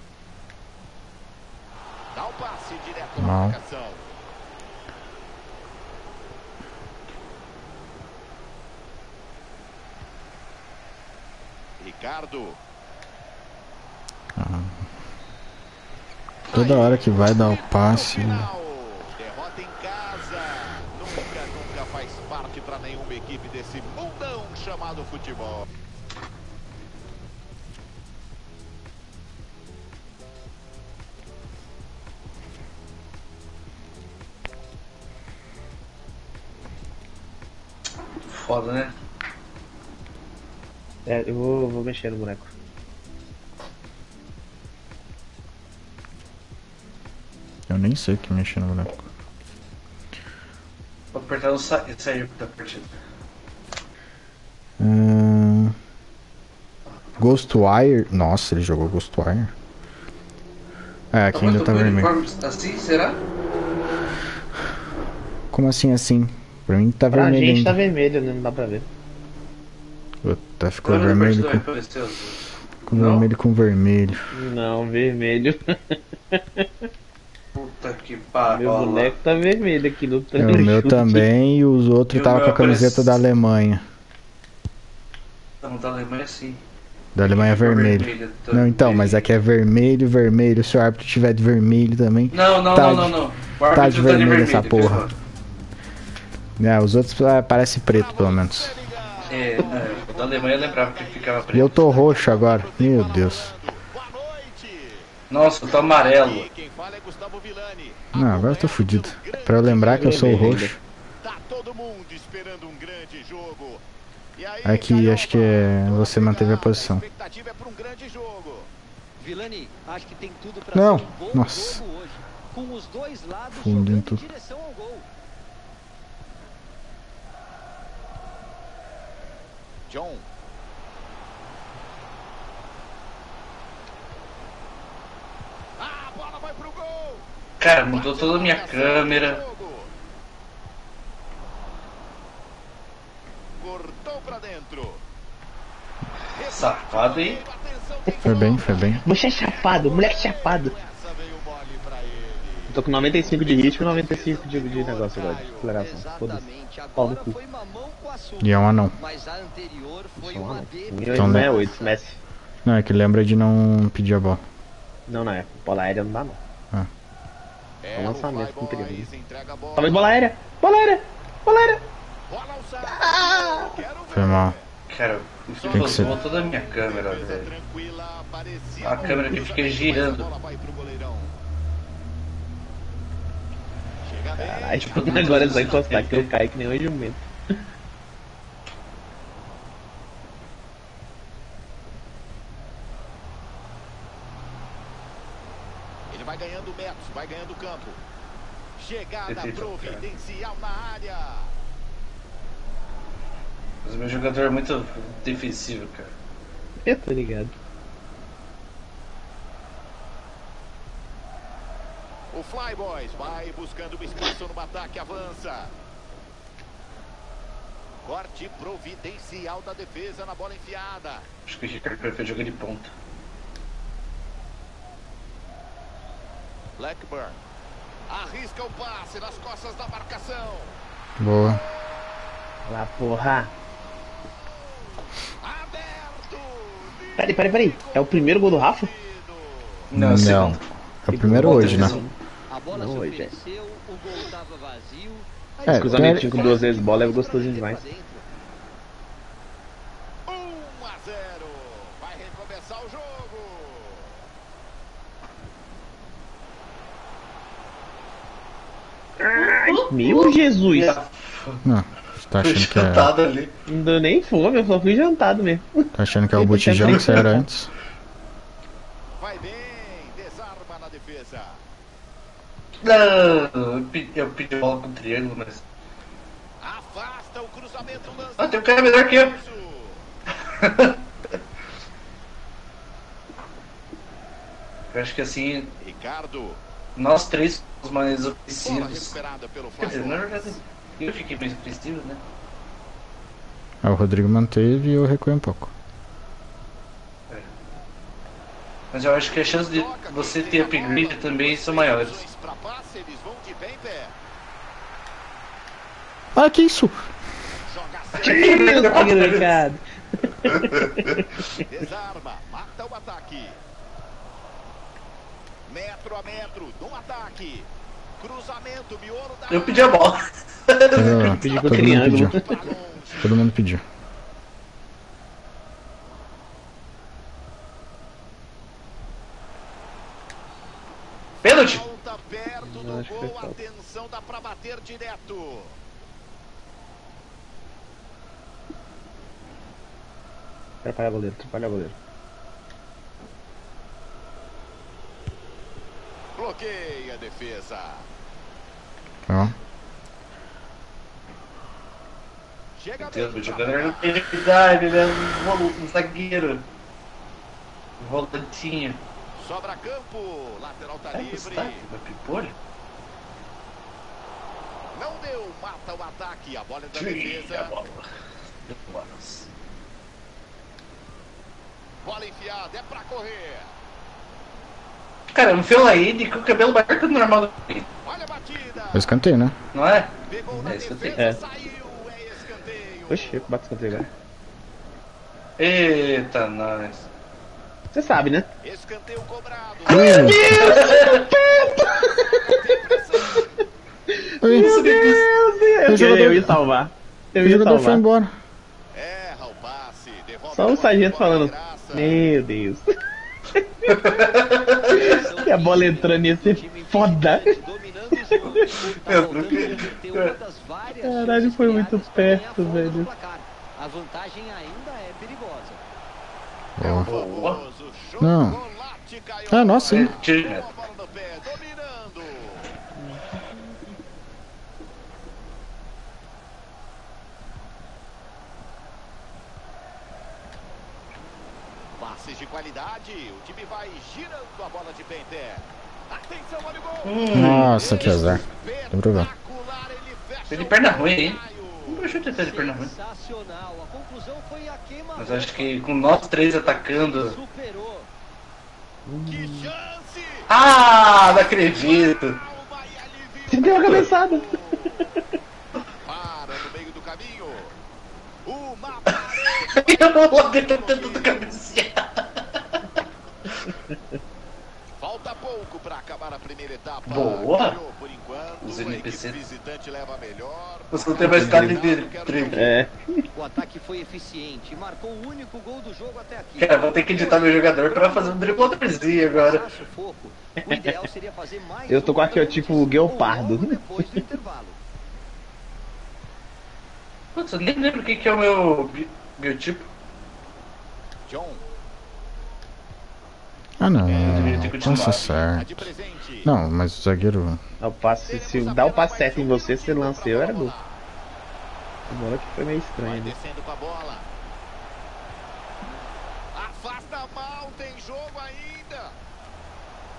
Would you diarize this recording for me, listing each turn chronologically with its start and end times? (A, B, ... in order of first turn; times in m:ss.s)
0:02.1-0:04.1 A
0:03.2-0:03.6 B
0:11.8-0:12.6 A
0:14.4-0:14.9 B
0:16.5-0:25.7 A
0:16.5-0:18.5 B
0:38.2-0:38.9 C
0:41.1-0:42.5 D
0:47.7-0:49.0 B
0:51.1-0:53.0 C
0:54.8-0:55.8 B
0:57.2-0:59.5 B
1:01.1-1:02.1 B
1:01.3-1:03.2 C
1:05.5-1:07.8 B
1:07.1-1:08.9 D
1:10.2-1:11.6 B
1:10.8-1:13.3 C
1:12.9-1:14.2 B
1:14.3-1:16.9 D
1:17.5-1:19.2 C
1:18.5-1:21.3 D
1:20.4-1:23.8 B
1:22.1-1:23.2 C
1:25.6-1:26.6 C
1:27.2-1:35.1 B
1:27.2-1:29.3 C
1:32.3-1:35.1 C
1:36.6-1:38.8 B
1:37.9-1:45.2 A
1:39.3-1:42.0 C
1:41.5-1:43.5 B
1:45.3-1:46.5 C
1:45.7-1:50.6 A
1:48.2-1:50.8 B
1:49.6-1:50.8 D
1:51.2-1:53.8 A
1:54.4-1:58.7 A
1:54.6-1:57.0 B
1:59.2-2:05.1 E
2:00.7-2:01.8 B
2:03.5-2:04.2 B
2:09.9-2:10.3 A
2:15.8-2:17.3 A
2:17.6-2:19.4 C
2:17.9-2:19.9 A
2:23.6-2:25.0 A
2:26.3-2:35.7 A
2:26.5-2:27.4 C
2:28.2-2:29.0 B
2:29.0-2:30.7 D
2:32.7-2:37.4 D
2:35.8-2:42.0 E
2:38.4-2:38.9 B
2:40.2-2:42.2 D
2:41.1-2:41.5 B
2:42.6-2:44.4 B
2:45.1-2:46.4 D
2:47.8-2:50.1 A
2:47.9-2:49.1 D
2:49.8-2:51.9 D
2:52.3-2:54.7 A
2:52.8-2:53.8 D
2:54.1-2:54.6 B
2:54.9-2:57.5 C
2:55.6-3:01.4 A
2:55.7-2:56.2 B
2:58.8-3:00.3 C
2:59.0-2:59.4 D
3:04.0-3:05.8 A
3:04.4-3:07.3 D
3:04.8-3:06.3 C
3:16.1-3:18.0 A
3:18.8-3:21.5 A
3:19.3-3:20.0 C
3:23.8-3:26.1 C
3:26.9-3:27.5 D
3:32.3-3:35.7 A
3:38.0-3:41.3 A
3:41.5-3:42.9 C
3:46.8-3:47.4 A
3:48.1-3:50.8 A
3:51.2-3:51.6 B
3:51.4-3:51.9 A
3:52.7-3:53.5 D
3:54.4-3:54.9 A
3:55.4-3:59.9 A
3:57.2-3:58.9 D
3:59.9-4:00.6 C
3:59.9-4:02.0 B
4:01.1-4:02.1 D
4:01.3-4:02.1 C
4:02.5-4:08.3 E
4:02.7-4:03.3 D
4:05.7-4:06.5 B
4:05.7-4:07.8 D
4:06.2-4:06.7 A
4:10.3-4:14.2 A
4:19.2-4:21.0 D
4:19.4-4:21.6 C
4:21.6-4:23.1 B
4:22.4-4:23.5 C
4:23.7-4:27.4 D
4:26.0-4:27.7 B
4:26.8-4:27.3 C
4:29.2-4:31.6 A
4:32.8-4:35.6 C
4:36.6-4:40.1 A
4:38.4-4:39.4 C
4:40.6-4:41.4 C
4:44.9-4:45.7 C
4:45.8-4:46.6 A
4:47.0-4:49.2 C
4:48.6-4:50.6 A
4:49.8-4:52.2 C
4:53.8-4:55.7 B
4:58.9-5:02.2 C
4:59.3-5:04.2 A
5:06.4-5:07.1 B
5:07.6-5:09.0 A
5:08.2-5:11.2 D
5:08.2-5:09.6 C
5:10.5-5:11.2 C
5:11.6-5:13.6 A
5:15.7-5:20.1 A
5:19.5-5:21.6 C
5:21.0-5:22.4 B
5:21.3-5:23.4 A
5:21.3-5:22.8 D
5:23.2-5:23.8 B
5:31.4-5:35.8 A
5:31.4-5:31.8 C
5:32.6-5:33.6 D
5:40.8-5:42.0 D
5:46.4-5:48.1 A
5:49.3-5:49.6 B
5:52.8-5:54.2 A
5:53.0-5:56.7 C
5:58.0-5:59.0 C
5:59.4-6:01.9 A
6:01.1-6:02.6 C
6:04.9-6:07.8 A
6:06.9-6:08.1 C
6:08.7-6:09.5 C
6:12.0-6:13.7 A
6:15.3-6:17.9 C
6:18.0-6:19.2 A
6:18.9-6:19.6 B
6:19.7-6:21.2 C
6:20.3-6:23.4 A
6:20.7-6:21.4 D
6:23.1-6:24.1 D
6:25.6-6:27.1 C
6:27.9-6:28.5 D
6:28.6-6:33.4 A
6:29.9-6:32.7 D
6:29.9-6:30.6 B
6:30.1-6:31.4 C
6:34.1-6:38.0 D
6:34.4-6:34.7 B
6:34.5-6:35.3 C
6:35.9-6:36.6 B
6:37.4-6:38.3 B
6:38.9-6:42.2 A
6:40.5-6:42.9 D
6:43.5-6:44.2 D
6:43.9-6:45.2 C
6:44.9-6:55.8 E
6:44.9-6:47.6 D
6:48.1-6:48.8 D
6:48.7-6:50.3 C
6:51.0-6:53.1 D
6:56.8-6:57.1 B
6:56.8-7:02.7 A
6:57.0-6:57.6 C
6:58.2-6:58.6 B
6:59.5-7:00.1 B
6:59.9-7:00.7 C
7:03.0-7:03.2 D
7:12.0-7:22.2 A
7:17.0-7:18.4 C
7:17.3-7:19.3 B
7:20.5-7:22.9 C
7:22.3-7:28.1 E
7:25.2-7:27.4 C
7:29.1-7:29.7 D
7:29.3-7:30.5 A
7:30.5-7:32.4 C
7:31.3-7:35.1 A
7:33.5-7:35.0 D
7:36.0-7:37.8 A
7:38.4-7:41.5 A
7:39.1-7:43.0 C
7:45.0-7:52.8 A
7:47.1-7:47.8 C
7:48.6-7:49.4 C
7:50.9-7:52.7 C
7:51.2-7:51.8 D
7:52.5-7:53.3 D
7:53.3-8:04.8 E
7:56.6-7:59.6 C
8:01.9-8:04.2 D
8:07.4-8:09.9 C
8:11.3-8:11.6 A
8:13.8-8:15.9 B
8:14.1-8:16.5 A
8:14.2-8:15.3 C
8:16.4-8:17.6 B
8:17.8-8:20.7 D
8:18.2-8:21.0 A
8:22.1-8:23.4 D
8:23.0-8:24.3 A
8:26.5-8:29.2 A